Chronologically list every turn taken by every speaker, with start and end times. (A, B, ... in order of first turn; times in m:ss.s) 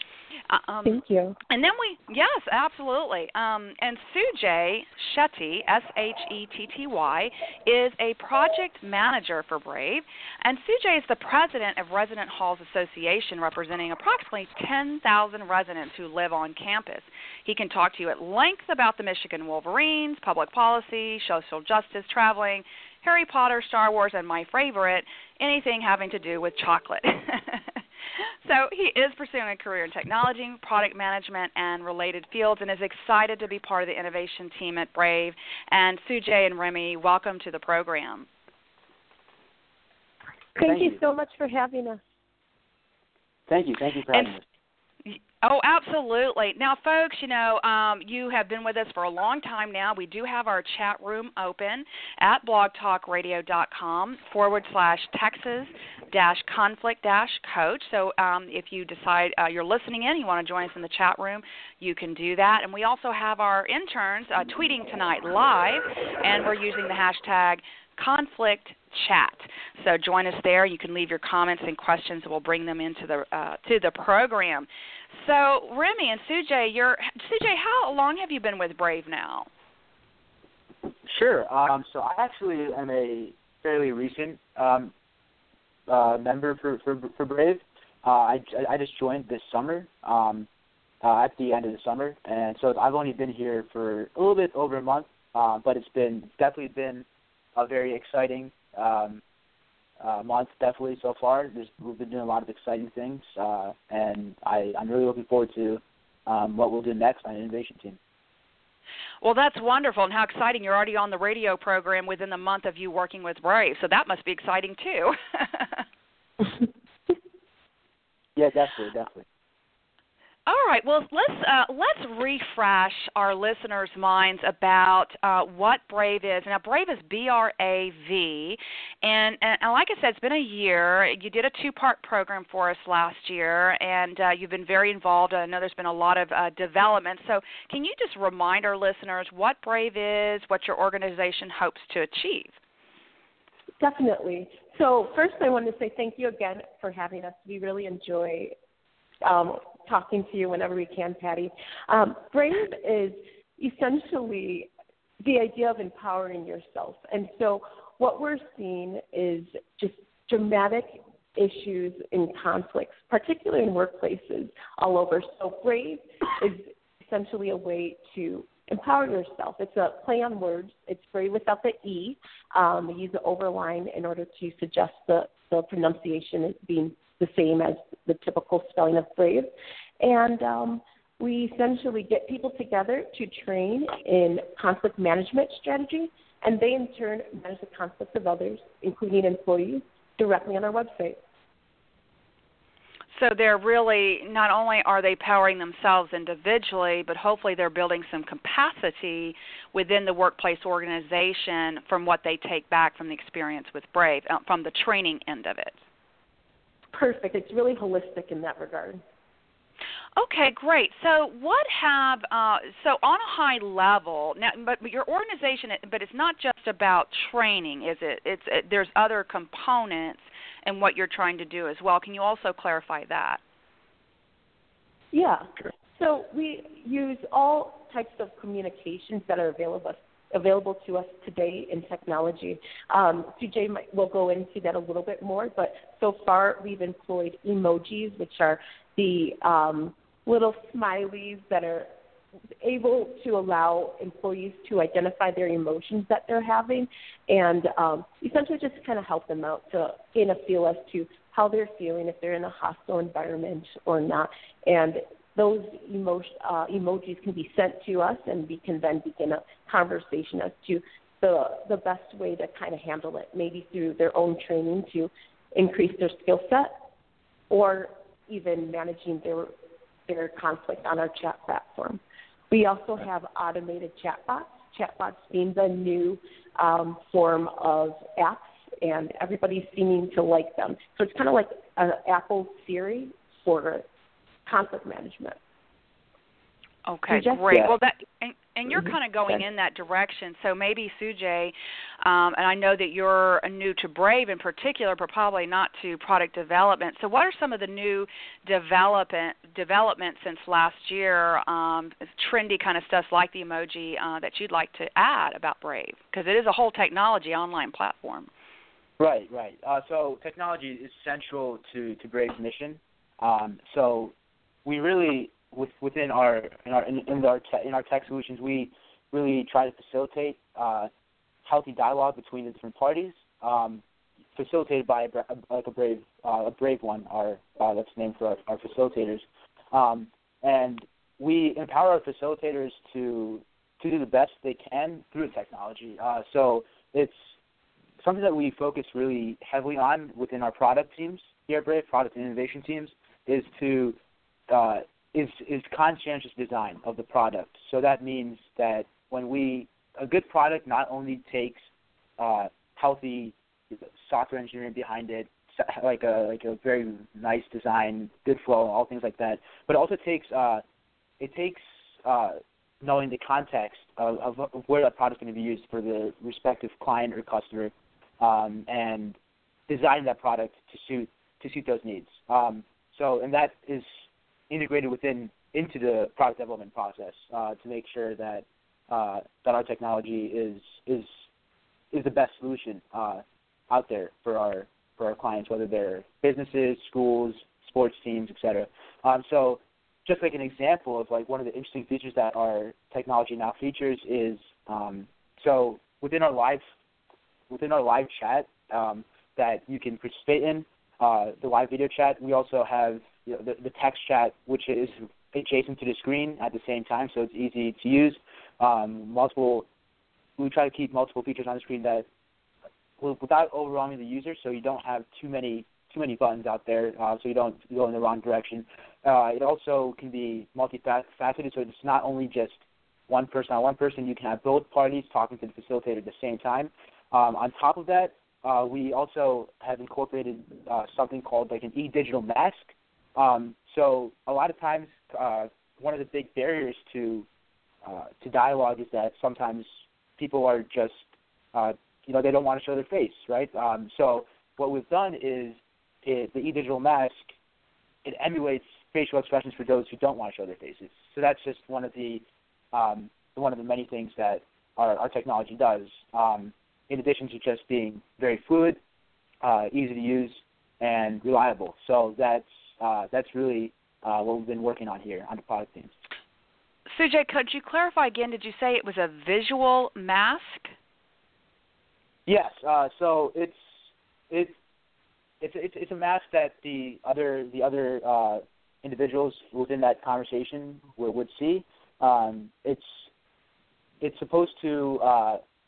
0:00.5-0:38.3 A
0:00.8-0:01.4 B
0:40.6-0:42.0 B
0:40.6-0:41.0 C
0:43.5-0:44.4 C
0:45.0-1:19.5 A
1:21.0-1:24.9 C
1:25.9-1:30.5 C
1:31.0-1:39.2 C
1:40.0-1:48.0 C
1:49.2-1:55.8 A
1:58.4-1:59.2 C
2:00.5-2:22.6 A
2:23.8-2:28.5 B
2:29.2-2:34.7 B
2:35.2-3:11.2 B
3:13.1-3:25.8 A
3:26.9-3:29.0 B
3:30.2-3:43.4 A
3:45.1-4:01.9 B
4:02.6-4:26.7 B
4:27.5-4:29.5 B
4:30.1-4:32.0 B
4:32.5-4:43.8 B
4:44.4-4:45.4 B
4:46.8-5:08.3 A
4:47.1-4:47.7 B
5:09.0-5:14.1 C
5:14.6-5:20.9 C
5:21.4-5:23.8 C
5:24.3-5:37.3 C
5:38.0-5:44.0 C
5:44.5-5:51.6 C
5:52.2-6:00.6 C
6:01.2-6:09.2 C
6:09.7-6:21.1 C
6:21.9-6:36.6 C
6:37.5-6:49.7 C
6:50.4-6:52.0 C
6:53.0-7:17.3 C
7:17.8-7:27.3 C
7:28.0-7:38.8 C
7:39.4-7:45.9 C
7:46.9-7:50.7 A
7:52.2-7:54.5 C
7:55.4-8:03.1 C
8:04.0-8:05.4 C